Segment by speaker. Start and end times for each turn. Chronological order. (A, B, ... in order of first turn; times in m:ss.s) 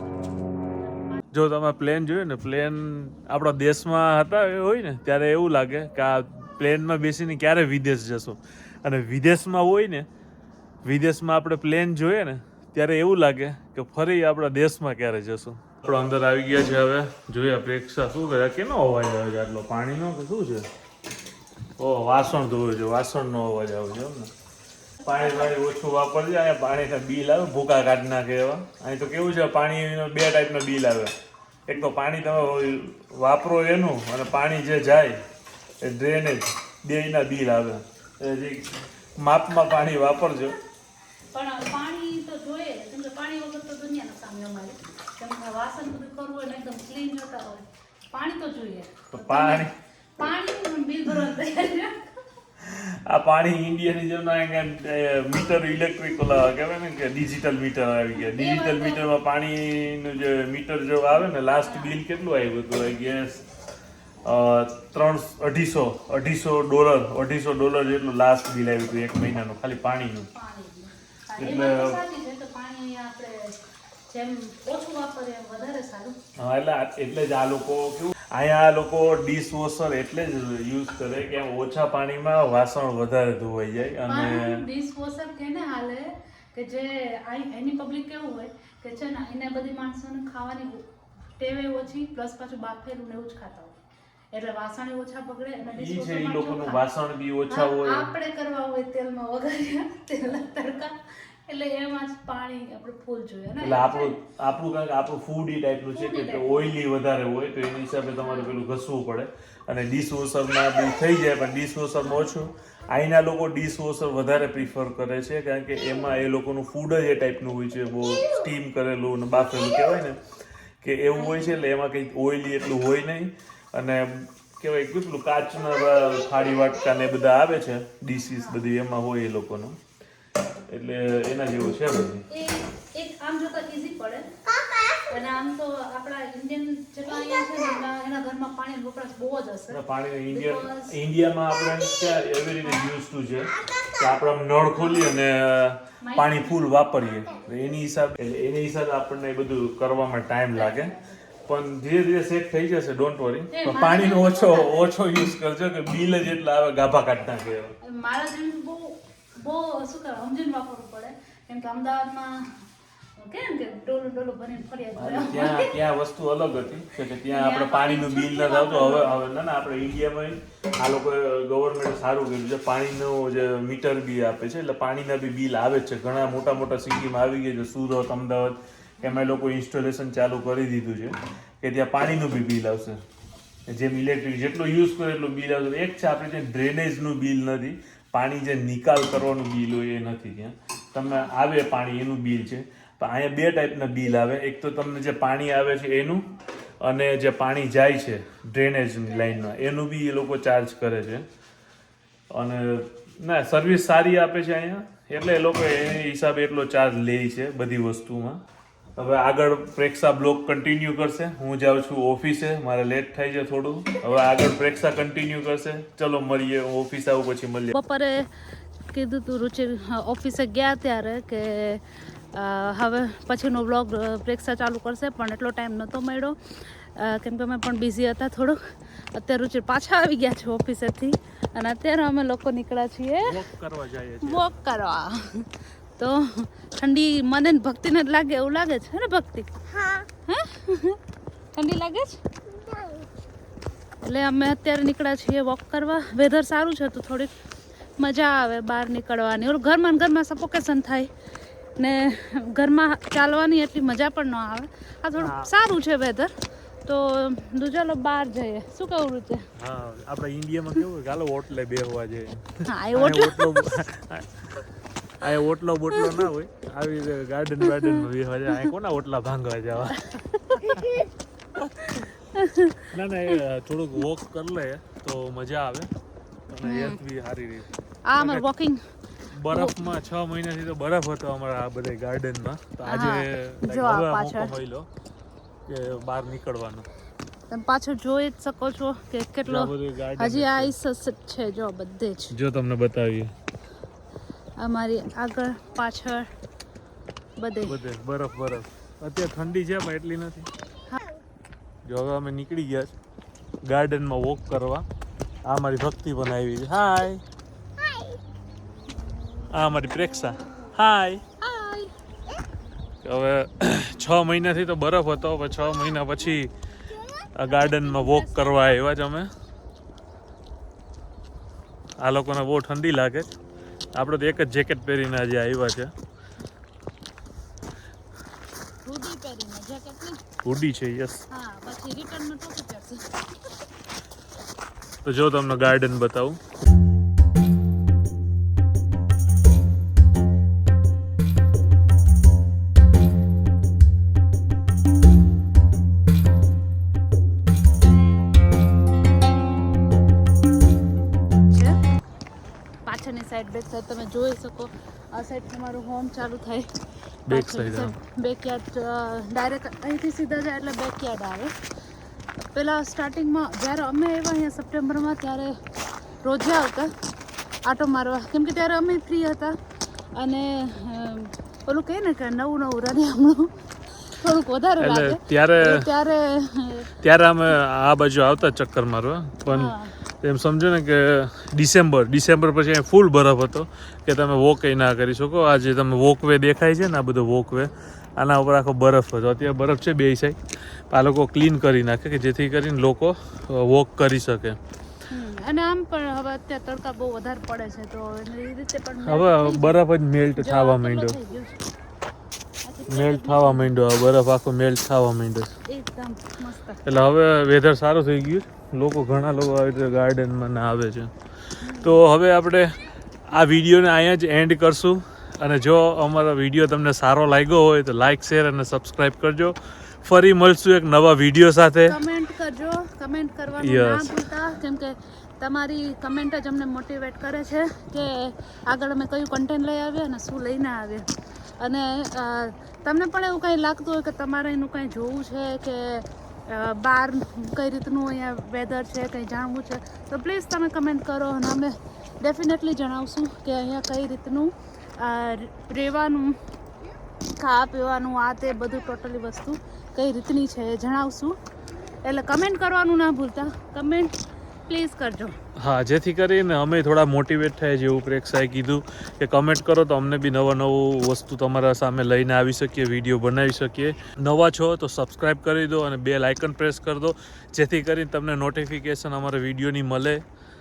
0:01.3-0:10.1 A
0:10.8-0:20.6 A
0:21.8-0:24.3 A
0:25.0-0:25.6 B
0:25.0-0:31.1 A
0:31.7-0:35.2 A
0:35.8-0:40.6 A
0:41.3-0:49.7 B
0:49.1-0:49.7 A
0:50.2-0:52.1 B
0:52.6-1:03.4 A
0:58.1-0:59.0 B
1:01.6-1:02.0 B
1:04.2-1:10.3 A
1:10.3-1:16.2 B
1:11.4-1:12.0 A
1:16.4-1:24.6 A
1:24.0-1:30.8 B
1:31.4-1:33.8 B
1:34.3-1:36.8 B
1:35.7-1:38.1 A
1:37.5-1:44.2 B
1:43.6-2:00.2 A
1:45.9-1:46.7 B
1:48.2-1:48.5 B
1:57.9-1:58.5 C
1:59.5-1:59.9 C
2:00.8-2:09.8 A
2:01.2-2:01.6 B
2:05.7-2:07.0 C
2:08.2-2:08.6 B
2:10.7-2:12.2 A
2:12.3-2:14.3 B
2:14.4-2:15.4 C
2:15.1-2:21.0 B
2:17.1-2:17.8 C
2:19.7-2:30.9 A
2:21.7-2:22.3 C
2:23.5-2:24.2 C
2:24.8-2:25.2 B
2:26.0-2:26.6 B
2:30.5-2:31.2 B
2:31.4-2:37.7 A
2:33.5-2:34.8 B
2:37.8-2:42.5 B
2:43.2-2:45.8 B
2:45.0-3:03.0 A
2:47.3-2:49.2 B
3:03.7-3:16.2 A
3:11.0-3:11.3 B
3:16.8-3:21.2 A
3:19.1-3:19.4 B
3:22.3-3:28.4 A
3:29.0-3:37.7 A
3:37.7-3:53.4 B
3:53.2-3:54.6 A
3:54.2-3:59.5 B
3:59.7-4:00.1 C
4:00.3-4:01.0 B
4:01.5-4:02.2 B
4:02.5-4:03.1 C
4:04.0-4:07.3 B
4:08.0-4:11.1 B
4:11.8-4:16.3 B
4:15.2-4:15.5 A
4:16.8-4:19.4 B
4:19.6-4:30.9 A
4:22.7-4:23.5 B
4:26.0-4:26.2 B
4:27.6-4:28.7 B
4:29.9-4:30.9 B
4:31.6-4:32.1 A
4:32.3-4:33.4 B
4:32.9-4:35.9 A
4:36.5-4:38.4 A
4:36.6-4:37.0 B
4:38.1-4:38.8 B
4:39.3-4:44.9 A
4:39.5-4:39.9 B
4:42.8-4:44.5 B
4:45.7-4:46.9 A
4:47.5-4:52.3 B
4:49.4-4:50.7 A
4:52.3-4:53.3 A
4:54.6-4:56.3 B
4:57.4-4:57.8 B
4:57.7-5:00.5 A
5:01.8-5:02.9 A
5:03.6-5:04.9 A
5:05.4-5:07.2 A
5:07.8-5:08.2 C
5:09.5-5:11.2 A
5:11.4-5:11.9 B
5:13.0-5:16.5 A
5:17.4-5:19.3 A
5:17.4-5:18.8 B
5:22.0-5:23.3 A
5:23.9-5:25.9 A
5:28.8-5:30.2 B
5:30.4-5:31.2 A
5:31.3-5:33.1 B
5:35.0-5:36.4 A
5:51.5-5:51.8 B
5:52.8-5:56.7 B
5:57.3-5:58.0 A
5:57.3-6:01.5 B
6:02.5-6:05.6 B
6:06.2-6:06.9 B
6:07.6-6:09.6 B
6:10.1-6:13.6 B
6:14.1-6:16.9 B
6:14.8-6:15.9 A
6:17.0-6:30.4 A
6:19.5-6:19.9 B
6:30.9-6:34.6 A
6:35.1-6:39.8 B
6:39.0-6:41.2 A
6:40.4-6:41.6 B
6:42.6-6:43.7 B
6:42.9-6:45.5 A
6:45.7-6:46.8 B
6:46.8-6:51.1 A
6:51.6-6:52.0 B
6:51.8-6:52.8 A
6:53.3-7:02.0 A
7:01.9-7:11.1 B
7:03.5-7:04.1 A
7:11.6-7:26.4 B
7:27.3-7:31.4 B
7:32.0-7:34.1 B
7:34.7-7:35.4 B
7:35.6-7:50.2 A